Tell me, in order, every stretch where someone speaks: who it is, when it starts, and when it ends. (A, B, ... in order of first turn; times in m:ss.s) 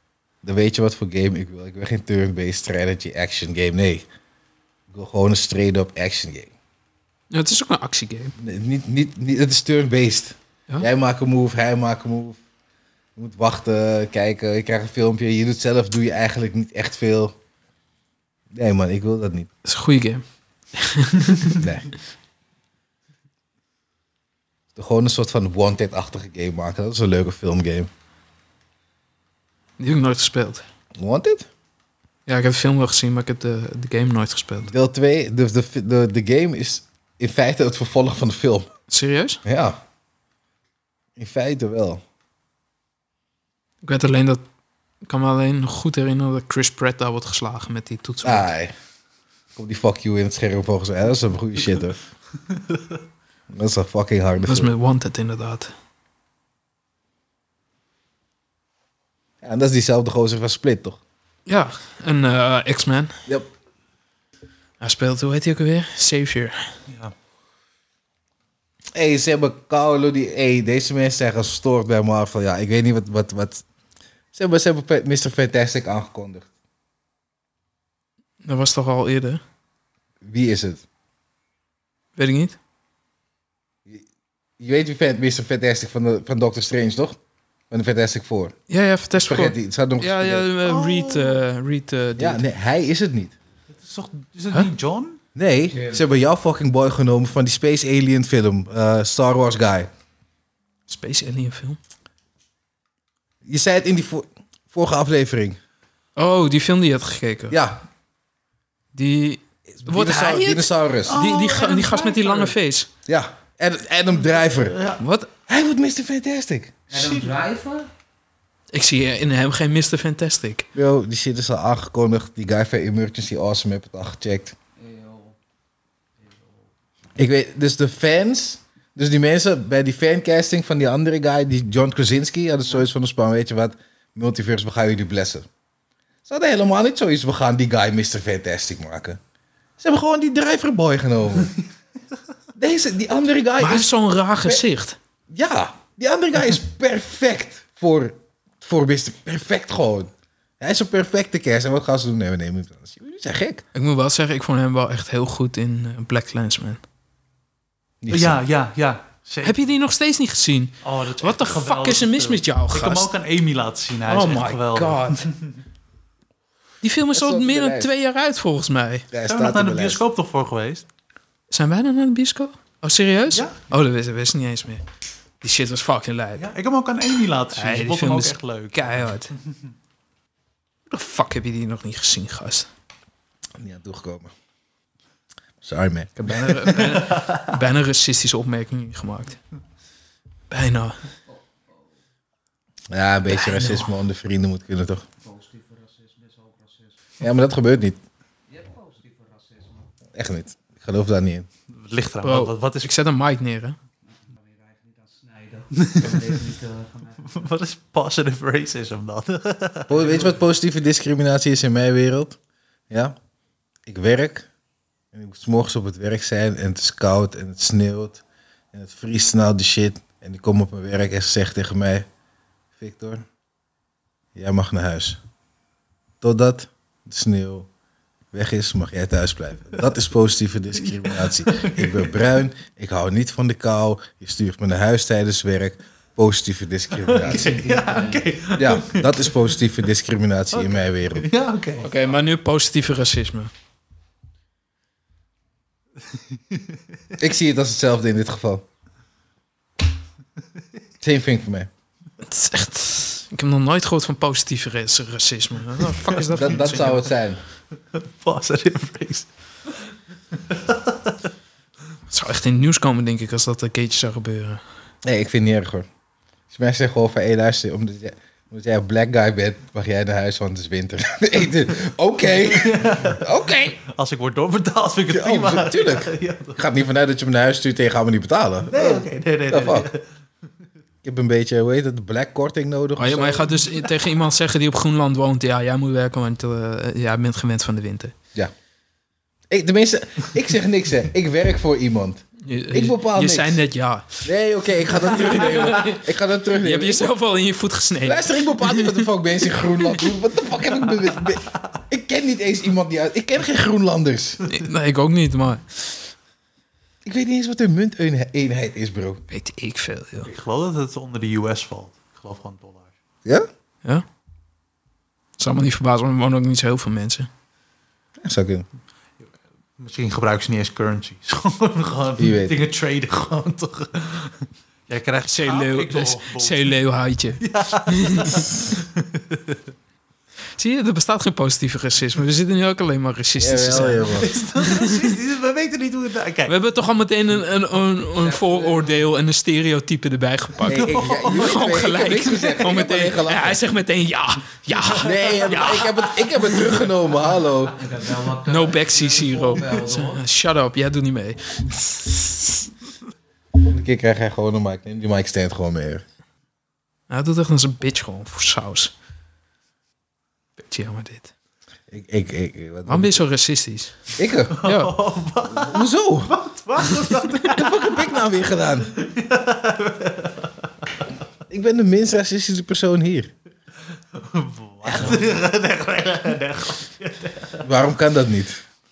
0:00.4-0:04.0 A
0:04.9-0:06.5 A
0:07.3-0:08.3 B
0:08.4-0:12.4 A
0:13.2-0:17.4 A
0:18.5-0:19.5 A
0:19.6-0:20.2 B
0:20.7-0:21.6 B
0:21.5-0:21.9 A
0:24.7-0:27.9 A
0:29.8-0:30.6 B
0:31.0-0:31.5 A
0:32.2-0:34.7 B
0:34.6-0:38.7 A
0:38.9-0:39.4 B
0:39.4-0:39.8 A
0:41.2-0:42.0 A
0:43.8-0:44.4 B
0:45.0-0:48.5 B
0:48.2-0:48.7 A
0:49.6-0:52.1 A
0:53.5-0:54.7 A
0:54.4-0:55.7 B
0:59.4-1:01.0 A
1:01.5-1:03.2 B
1:04.8-1:06.7 B
1:06.9-1:07.1 C
1:08.9-1:13.6 A
1:14.3-1:16.5 A
1:18.4-1:19.4 B
1:20.2-1:20.8 A
1:22.2-1:22.6 B
1:24.6-1:27.2 A
1:27.7-1:28.5 A
1:28.7-1:32.4 B
1:29.2-1:30.5 A
1:30.6-1:31.4 C
1:32.2-1:33.3 A
1:33.7-1:35.2 C
1:35.3-1:39.9 A
1:40.9-1:41.8 B
1:43.4-1:45.6 A
1:46.2-1:47.6 B
1:47.5-1:47.8 A
1:48.9-1:52.9 B
1:49.7-1:51.2 A
1:51.1-1:52.5 C
1:53.1-1:54.8 A
1:54.6-1:55.0 C
1:55.0-1:55.3 B
1:55.5-1:56.7 A
1:56.9-1:57.9 D
1:56.9-1:57.3 C
1:58.7-2:00.7 B
2:00.7-2:04.6 A
2:04.8-2:05.4 D
2:06.2-2:06.7 D
2:07.2-2:15.5 A
2:16.2-2:19.2 A
2:19.8-2:21.5 A
2:22.6-2:23.9 A
2:23.6-2:25.0 B
2:25.3-2:33.6 A
2:33.7-2:36.8 B
2:38.0-2:38.4 A
2:38.1-2:39.7 C
2:39.4-2:43.1 B
2:40.8-2:45.5 C
2:44.1-2:45.3 B
2:46.8-2:49.1 B
2:47.1-2:47.9 A
2:49.1-2:50.0 A
2:49.2-2:50.8 C
2:51.5-2:54.8 B
2:55.4-2:56.5 B
2:56.4-2:59.5 C
2:57.5-2:59.3 B
3:00.9-3:02.7 B
3:03.6-3:04.3 A
3:05.6-3:06.7 A
3:06.2-3:09.4 B
3:06.9-3:07.4 C
3:10.5-3:11.0 B
3:11.3-3:11.9 D
3:12.9-3:15.0 A
3:13.3-3:13.9 B
3:15.2-3:17.1 D
3:17.2-3:18.0 A
3:18.5-3:19.9 D
3:20.1-3:21.5 A
3:21.7-3:22.9 C
3:22.2-3:23.8 B
3:24.0-3:27.5 D
3:25.8-3:26.3 C
3:27.2-3:30.3 C
3:29.9-3:32.4 A
3:32.9-3:33.1 A
3:33.8-3:34.5 A
3:35.1-3:42.1 A
3:42.8-3:43.2 A
3:44.3-3:45.2 A
3:46.2-3:47.7 A
3:48.3-3:57.6 A
3:51.0-3:52.1 C
3:57.0-3:59.4 C
3:57.2-3:58.3 D
3:58.5-4:01.3 A
4:00.5-4:01.9 C
4:01.8-4:03.5 B
4:06.4-4:06.7 C
4:07.2-4:08.6 A
4:11.0-4:11.7 A
4:12.2-4:17.1 B
4:15.9-4:16.7 C
4:16.3-4:17.4 A
4:17.9-4:19.3 C
4:20.4-4:21.1 C
4:22.1-4:24.6 B
4:25.0-4:25.9 A
4:26.5-4:33.8 A
4:32.3-4:36.6 C
4:35.1-4:39.9 A
4:38.7-4:40.0 C
4:41.0-4:43.5 A
4:43.0-4:48.1 B
4:49.5-4:53.6 A
4:52.4-4:54.3 B
4:54.2-4:57.1 A
4:55.0-4:56.0 B
4:56.6-4:59.1 B
4:58.0-5:04.4 A
5:04.5-5:06.1 B
5:07.0-5:09.2 A
5:09.3-5:10.3 B
5:10.2-5:12.9 C
5:15.4-5:17.3 B
5:18.2-5:18.6 A
5:19.8-5:26.8 C
5:22.2-5:22.6 A
5:25.3-5:28.5 B
5:27.4-5:29.6 C
5:30.6-5:35.1 B
5:33.4-5:34.3 A
5:34.1-5:36.5 C
5:36.5-5:46.0 B
5:38.1-5:39.1 D
5:40.6-5:43.6 A
5:40.7-5:41.8 C
5:44.9-5:47.8 A
5:45.1-5:46.0 C
5:47.7-5:50.2 D
5:48.4-5:52.4 B
5:53.6-5:56.0 A
5:57.1-5:58.9 B
6:00.6-6:01.3 B
6:01.9-6:03.2 A
6:02.9-6:04.0 B
6:04.2-6:04.6 A
6:04.5-6:08.2 C
6:04.6-6:04.9 B
6:05.4-6:06.4 A
6:07.4-6:08.9 A
6:08.9-6:10.9 C
6:11.5-6:13.3 A
6:14.1-6:17.6 C
6:14.8-6:15.4 A
6:17.6-6:18.6 A